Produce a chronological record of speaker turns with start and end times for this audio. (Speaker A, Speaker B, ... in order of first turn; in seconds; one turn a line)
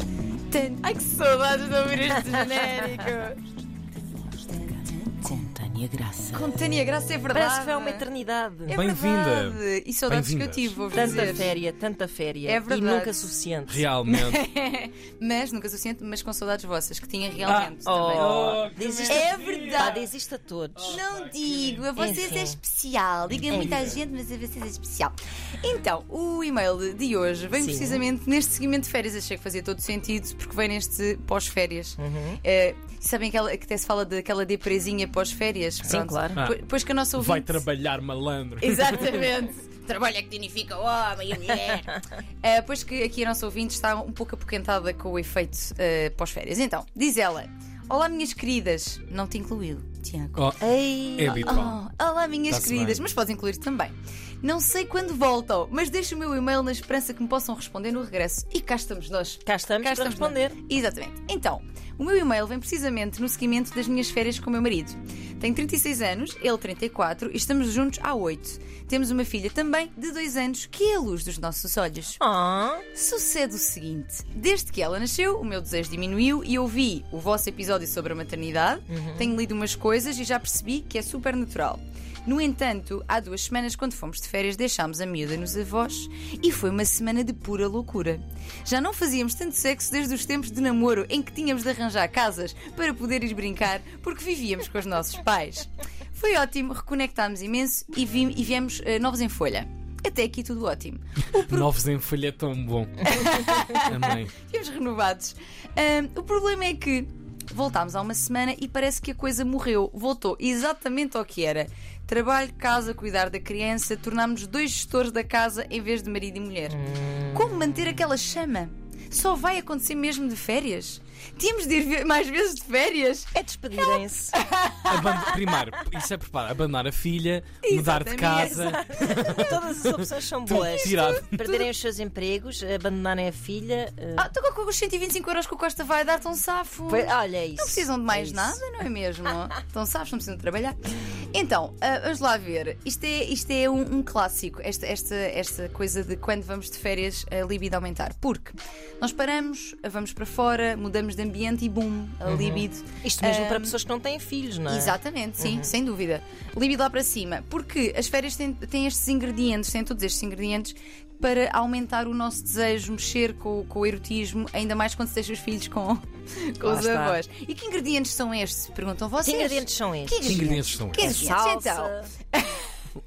Speaker A: 0.5-3.4
Speaker A: 4.4-5.5
Speaker B: 5.3-6.5
Speaker A: 6.3-8.1
Speaker B: 7.3-8.8
Speaker C: 8.7-10.8
Speaker A: 8.7-11.5
Speaker B: 10.9-13.8
Speaker A: 12.4-13.3
Speaker C: 13.7-14.4
Speaker A: 14.1-20.0
Speaker C: 17.4-20.1
Speaker B: 17.8-21.0
Speaker C: 20.8-22.4
Speaker A: 20.9-37.6
Speaker B: 21.9-22.6
Speaker B: 23.5-23.9
Speaker B: 27.5-28.0
Speaker B: 32.0-32.4
Speaker B: 35.9-36.4
Speaker C: 37.1-39.2
Speaker A: 38.6-50.5
Speaker C: 50.4-51.8
Speaker B: 50.6-51.6
Speaker A: 51.2-72.2
Speaker C: 52.5-53.0
Speaker B: 59.4-60.6
Speaker B: 72.2-72.8
Speaker A: 72.9-101.7
Speaker B: 78.9-79.3
Speaker C: 101.3-104.3
Speaker A: 103.0-116.8
Speaker B: 116.7-117.9
Speaker A: 117.3-123.3
Speaker B: 123.3-124.3
Speaker A: 123.9-125.4
Speaker C: 124.9-129.7
Speaker A: 127.6-129.5
Speaker B: 128.3-134.3
Speaker C: 130.4-131.5
Speaker A: 130.5-131.5
Speaker A: 134.2-140.8
Speaker B: 136.9-138.6
Speaker A: 141.3-153.8
Speaker B: 152.2-155.7
Speaker A: 154.7-172.7
Speaker B: 166.6-167.2
Speaker B: 169.2-172.1
Speaker C: 170.2-171.2